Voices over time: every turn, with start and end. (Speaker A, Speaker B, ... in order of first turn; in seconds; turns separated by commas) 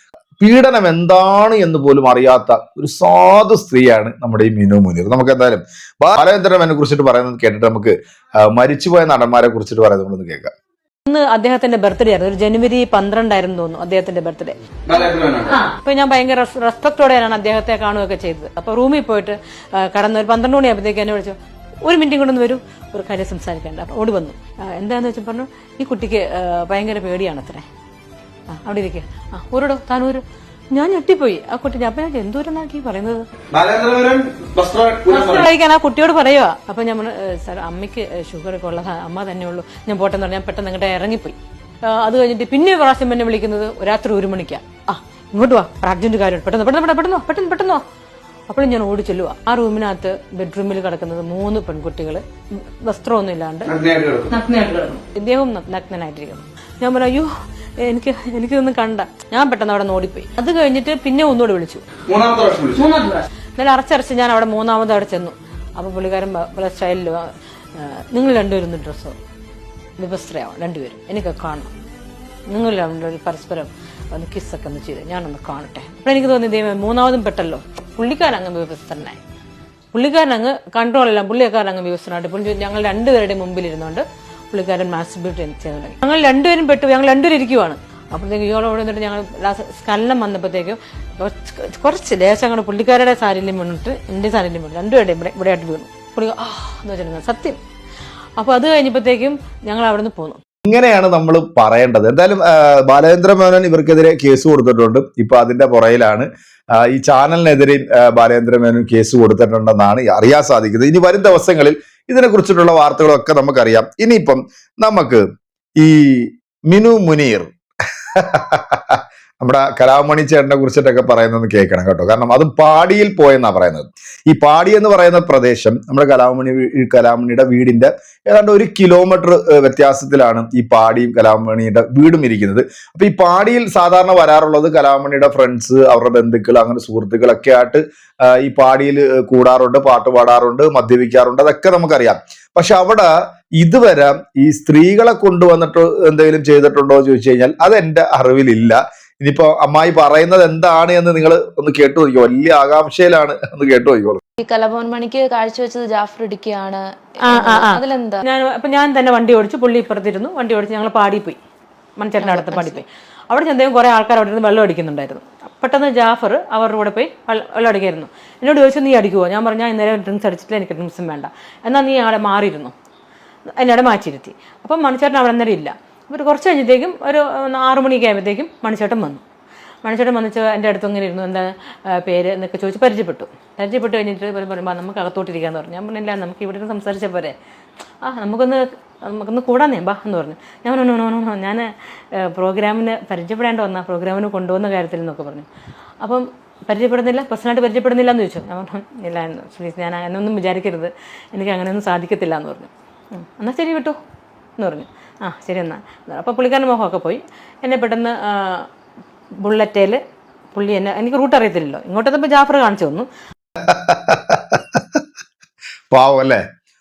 Speaker A: 0.4-10.5, Speaker B: 11.1-27.6, Speaker C: 14.9-15.6, Speaker B: 28.5-33.2, Speaker C: 33.5-35.5, Speaker B: 35.1-47.8, Speaker B: 48.5-53.7, Speaker C: 53.6-54.3, Speaker B: 54.4-57.3, Speaker D: 54.4-54.9, Speaker B: 57.8-61.8, Speaker C: 62.1-62.9, Speaker B: 62.8-69.1, Speaker B: 70.0-71.7, Speaker B: 72.5-79.2, Speaker B: 79.9-97.6, Speaker B: 98.4-100.4, Speaker A: 100.7-106.3, Speaker A: 106.8-115.2, Speaker A: 115.8-117.5, Speaker A: 118.1-154.2, Speaker D: 154.4-158.2, Speaker B: 157.2-161.4, Speaker B: 162.0-172.7, Speaker D: 162.2-162.8, Speaker B: 173.6-179.2, Speaker B: 179.8-187.3, Speaker B: 188.0-195.4, Speaker B: 196.0-204.0, Speaker B: 204.6-208.7, Speaker B: 209.4-210.0, Speaker B: 210.5-213.1, Speaker A: 213.6-215.0, Speaker A: 215.9-216.4